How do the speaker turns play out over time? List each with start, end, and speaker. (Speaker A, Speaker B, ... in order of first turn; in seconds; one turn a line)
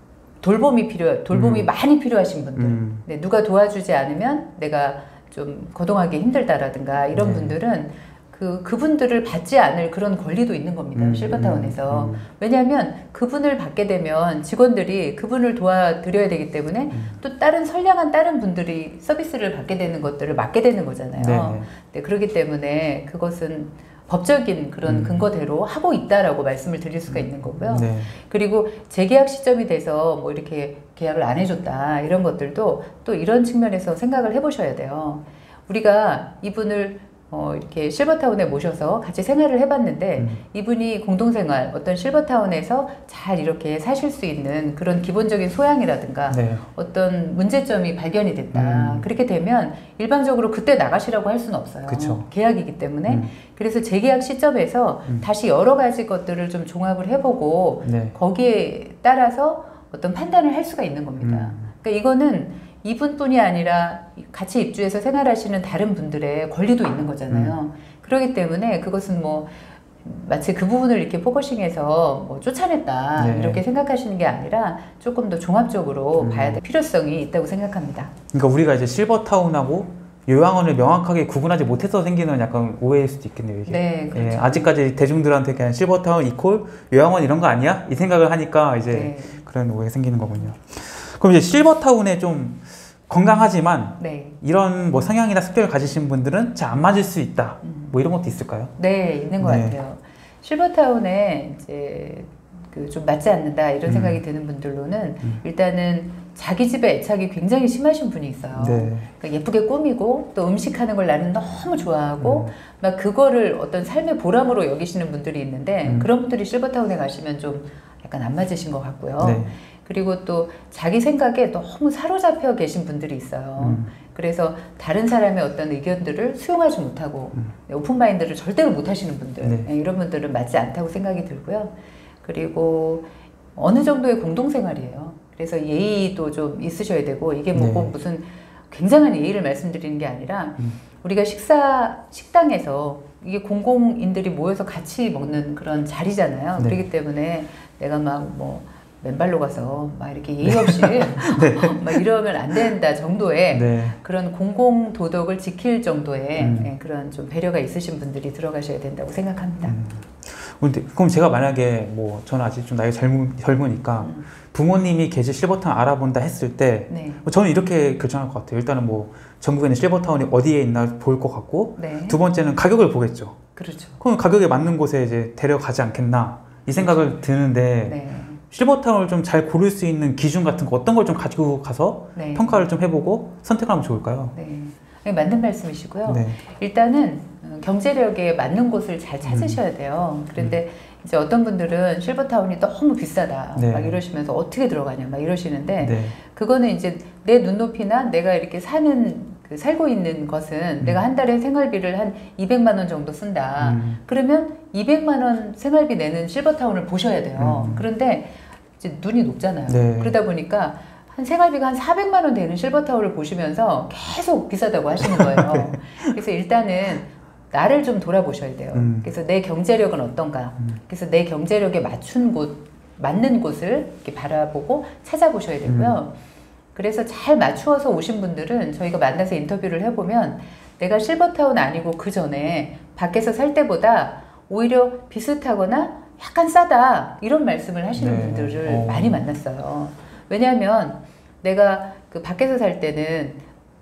Speaker A: 0.4-78.1
Speaker B: 1.3-1.7
Speaker B: 2.5-3.0
Speaker B: 7.1-7.5
Speaker B: 10.9-12.3
Speaker B: 16.9-17.2
Speaker B: 21.2-21.7
Speaker B: 24.8-25.2
Speaker B: 27.1-28.1
Speaker B: 46.3-46.6
Speaker B: 48.5-49.1
Speaker B: 51.9-52.3
Speaker B: 53.0-53.3
Speaker B: 57.8-58.1
Speaker B: 61.2-61.7
Speaker B: 67.3-67.5
Speaker B: 73.2-73.6
Speaker B: 76.2-76.6
Speaker B: 78.3-98.7
Speaker A: 83.7-84.7
Speaker A: 88.9-89.4
Speaker A: 94.0-94.4
Speaker A: 97.6-97.9
Speaker A: 98.8-159.8
Speaker B: 99.4-99.8
Speaker B: 103.9-104.2
Speaker B: 108.5-109.1
Speaker B: 112.2-112.5
Speaker B: 119.2-119.5
Speaker B: 123.6-123.9
Speaker B: 129.4-129.7
Speaker B: 137.5-137.9
Speaker B: 150.4-152.0
Speaker B: 153.5-154.0
Speaker B: 156.4-156.7
Speaker B: 159.6-173.4
Speaker A: 164.0-164.3
Speaker A: 166.9-167.2
Speaker A: 171.8-172.2
Speaker A: 173.6-174.0
Speaker B: 174.0-178.0
Speaker A: 176.8-177.2
Speaker A: 177.8-178.4
Speaker B: 178.5-184.3
Speaker A: 182.1-182.7
Speaker A: 184.3-226.1
Speaker B: 186.1-186.4
Speaker B: 189.2-189.6
Speaker B: 193.5-194.0
Speaker B: 195.8-196.2
Speaker B: 203.6-204.0
Speaker B: 207.4-207.8
Speaker B: 209.7-210.2
Speaker B: 215.0-216.1
Speaker B: 218.7-219.1
Speaker B: 225.7-226.0
Speaker A: 226.7-243.4
Speaker B: 237.9-239.2